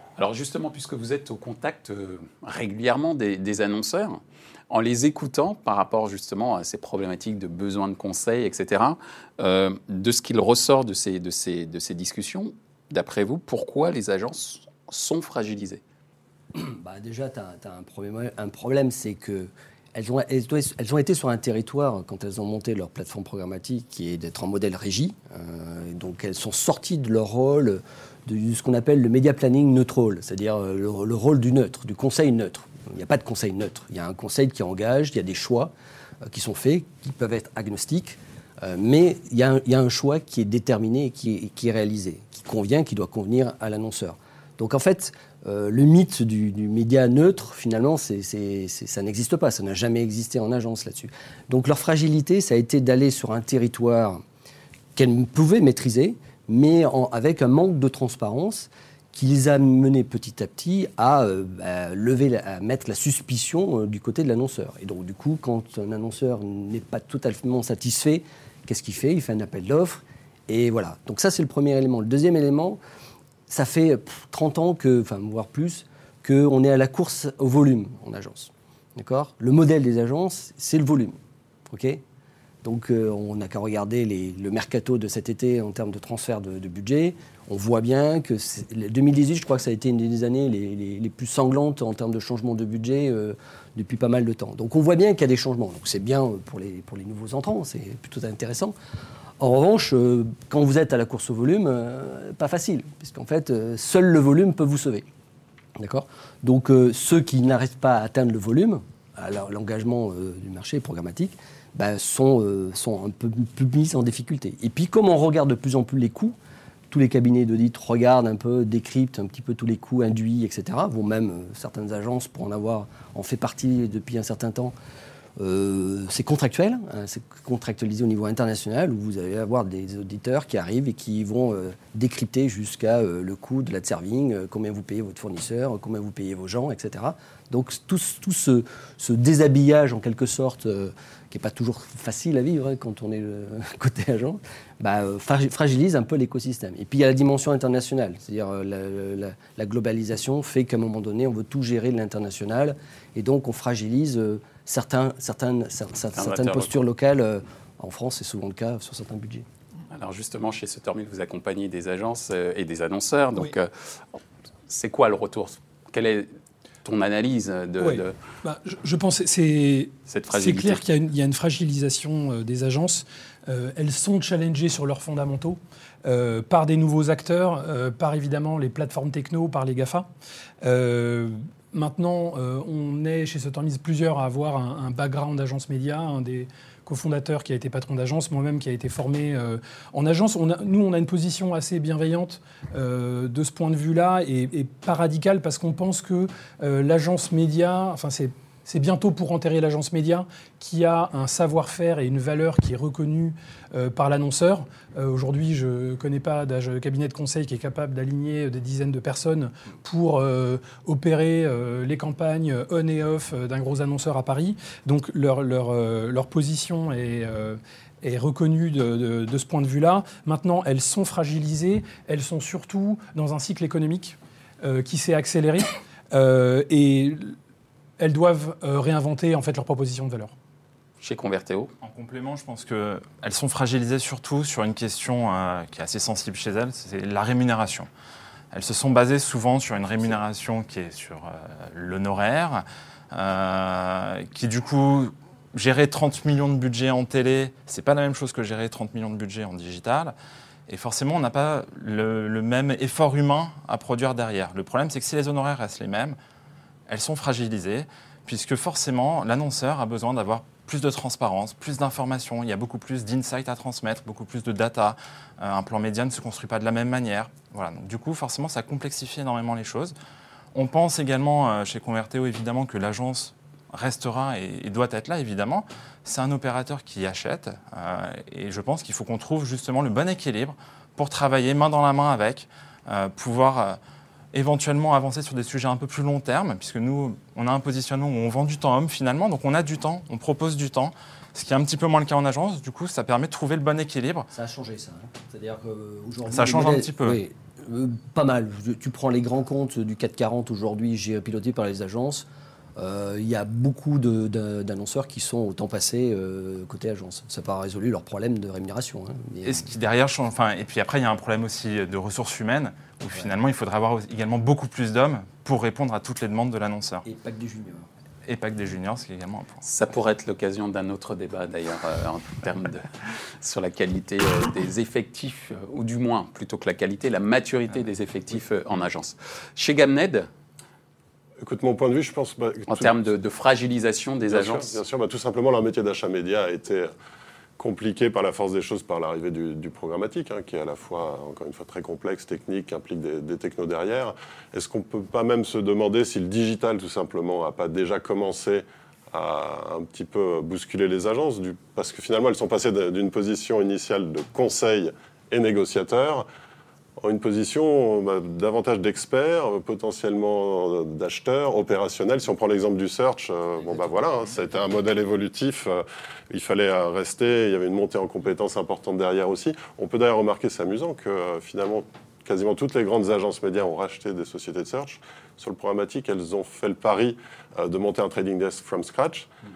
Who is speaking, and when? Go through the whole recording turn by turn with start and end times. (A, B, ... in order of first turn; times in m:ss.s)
0:00.2-0:15.8 A
0:16.5-0:35.7 B
0:36.2-0:54.2 B
0:54.9-1:12.8 B
1:13.5-1:22.0 B
1:22.6-1:38.7 B
1:39.4-1:45.0 B
1:45.8-1:56.4 B
1:56.9-2:04.7 B
2:05.4-2:39.4 B
2:36.2-2:36.7 A
2:39.9-2:46.3 A
2:46.8-2:48.2 A
2:47.8-3:00.1 C
2:50.1-2:50.8 A
3:00.6-3:47.4 C
3:48.0-3:50.3 C
3:51.0-3:51.7 A
3:51.8-3:57.9 D
3:58.5-4:10.1 D
4:10.7-4:16.2 D
4:16.9-4:29.9 D
4:30.5-4:43.8 D
4:44.3-4:54.3 D
4:54.3-5:09.6 B
4:56.3-4:57.2 D
5:09.4-5:17.0 D
5:17.0-5:17.9 B
5:18.2-5:19.6 D
5:19.6-5:30.3 A
5:31.4-5:33.0 E
5:32.7-5:34.8 A
5:34.3-5:36.9 E
5:37.6-5:56.2 E
5:57.0-6:19.3 E